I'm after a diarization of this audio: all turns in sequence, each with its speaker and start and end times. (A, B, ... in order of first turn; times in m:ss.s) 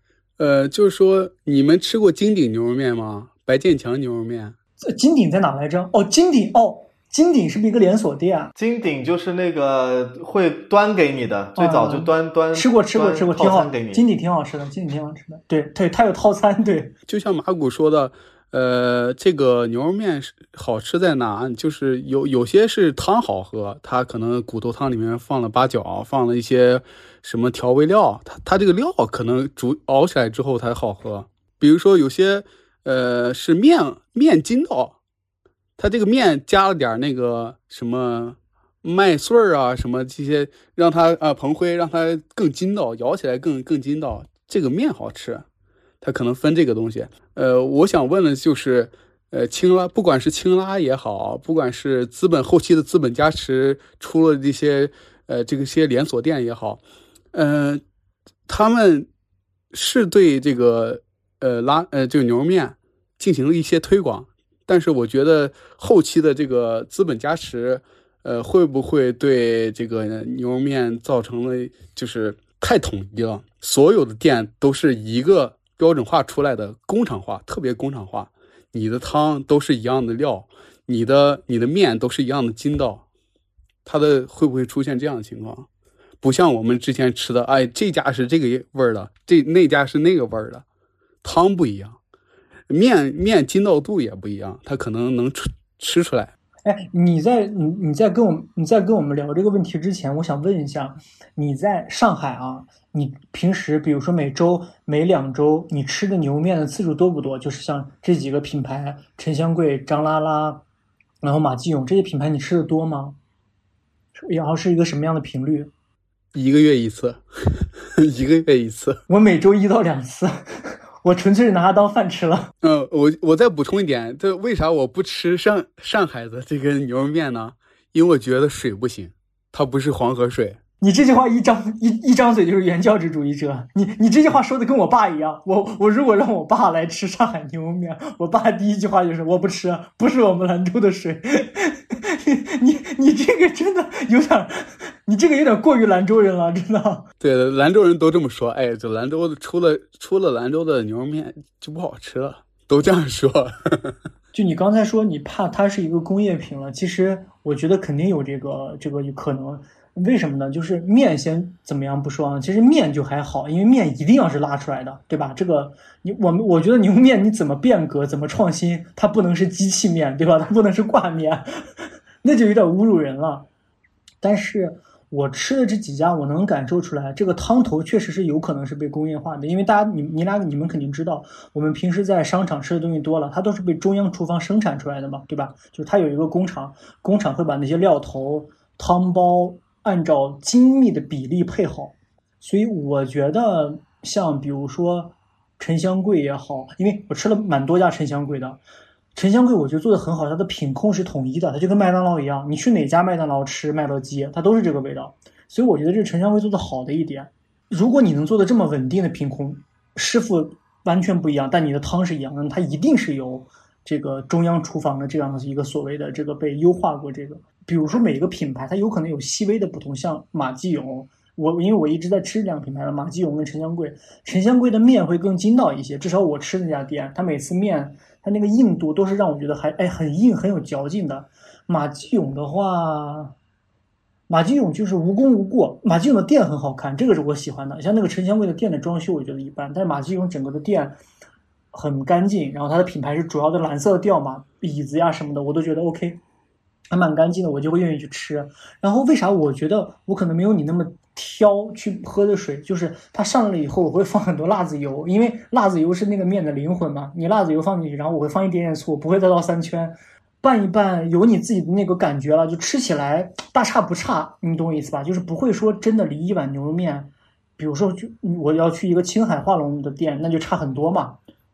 0:00.4-0:04.6 A
0:04.8-0:08.5 B
0:08.6-0:14.0 C
0:11.6-0:17.0 B
0:17.1-0:35.0 A
0:35.8-0:45.4 A
0:46.0-0:56.8 A
0:57.3-0:57.8 A
0:58.5-0:59.1 A
0:59.7-1:23.0 A
1:23.8-1:25.7 A
1:26.2-1:30.6 A
1:31.2-1:32.0 A
1:32.7-1:36.3 A
1:36.6-1:50.6 B
1:51.2-1:53.2 B
1:54.2-1:55.7 B
1:56.3-1:59.0 A
1:59.1-2:02.5 B
2:02.6-2:10.6 A
2:10.8-2:27.0 B
2:27.2-2:34.0 A
2:34.3-2:51.4 B
2:52.2-2:53.5 B
2:54.2-3:18.6 B
3:19.2-3:53.3 B
3:54.3-4:01.0 B
4:01.7-4:06.2 B
4:06.9-4:31.2 B